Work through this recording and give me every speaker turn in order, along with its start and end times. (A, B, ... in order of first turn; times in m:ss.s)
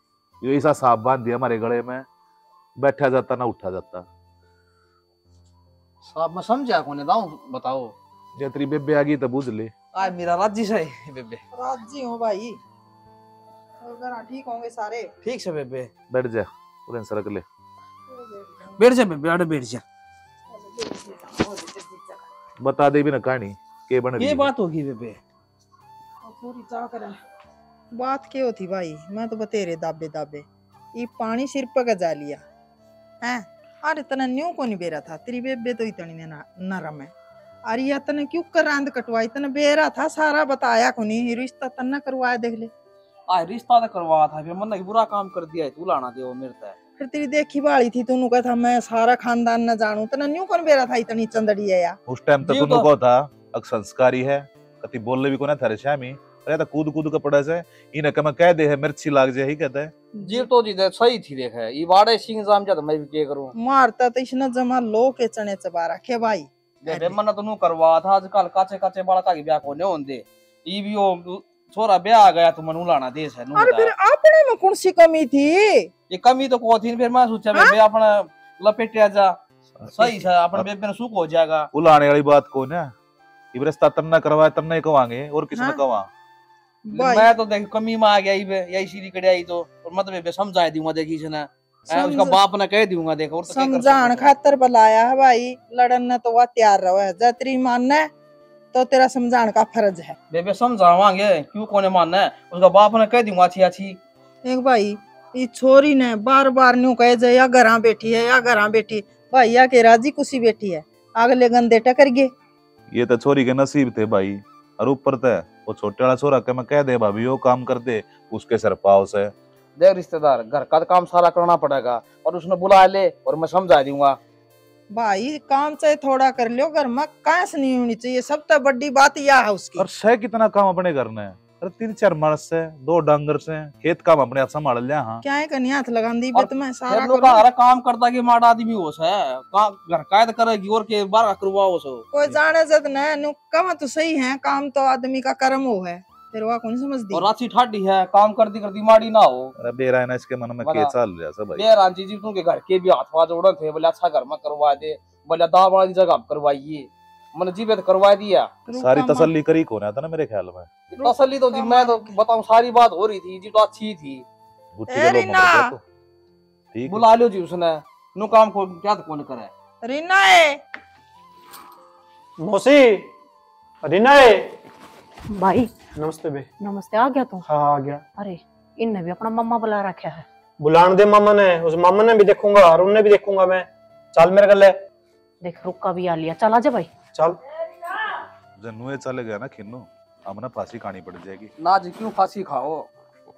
0:00.4-0:02.0 A
0:02.8-0:04.1 A
0:06.0-0:08.0 B
0:08.4-0:09.7 A
0:09.9-0:11.4 B
0:11.5-0:12.6 C
0:13.8-0:15.1 C
0:15.2-0:15.9 B
0:16.1-0:17.4 A
0:18.1-0:18.8 C
0:18.8-0:19.8 B
0:20.5-0:22.2 C
0:22.6-0:24.5 A
0:24.2-0:25.2 B
0:26.2-0:27.2 C
0:27.9-0:32.4 C
0:33.2-0:37.1 C
0:37.7-0:42.7 C
0:43.3-0:46.8 B
0:47.0-0:52.0 C
0:52.1-0:59.9 A
0:52.4-0:52.9 B
1:00.2-1:03.5 B
1:03.6-1:07.2 C
1:06.8-1:13.9 B
1:13.6-1:15.9 C
1:16.1-1:19.4 B
1:19.8-1:20.7 A
1:19.9-1:21.7 B
1:21.7-1:22.9 A
1:23.5-1:26.1 A
1:25.6-1:25.8 C
1:26.9-1:27.3 C
1:26.9-1:34.3 B
1:31.9-1:32.4 C
1:33.5-1:38.1 C
1:38.7-1:40.2 C
1:40.3-1:44.0 B
1:44.4-1:52.3 C
1:52.9-1:59.3 A
1:59.8-2:04.2 B
2:04.9-2:09.9 C
2:09.8-2:15.2 A
2:15.2-2:17.4 C
2:16.3-2:22.1 B
2:22.1-2:27.3 C
2:27.1-2:29.5 B
2:29.6-2:31.7 A
2:30.6-2:30.9 B
2:31.6-2:38.5 B
2:38.7-2:39.3 C
2:38.7-2:40.7 A
2:40.9-2:44.2 B
2:41.0-2:42.2 C
2:44.8-2:45.8 A
2:44.9-2:45.7 C
2:46.7-2:47.1 A
2:46.9-2:49.5 B
2:49.8-2:50.6 C
2:52.4-2:53.1 D
2:53.8-2:54.5 D
2:55.3-2:55.7 E
2:56.0-2:56.5 D
2:56.6-2:57.4 E
2:57.5-2:58.0 D
2:58.2-3:00.2 E
3:00.6-3:04.8 D
3:05.4-3:06.9 E
3:07.1-3:07.4 D
3:07.8-3:08.2 C
3:08.6-3:11.5 A
3:11.6-3:12.9 B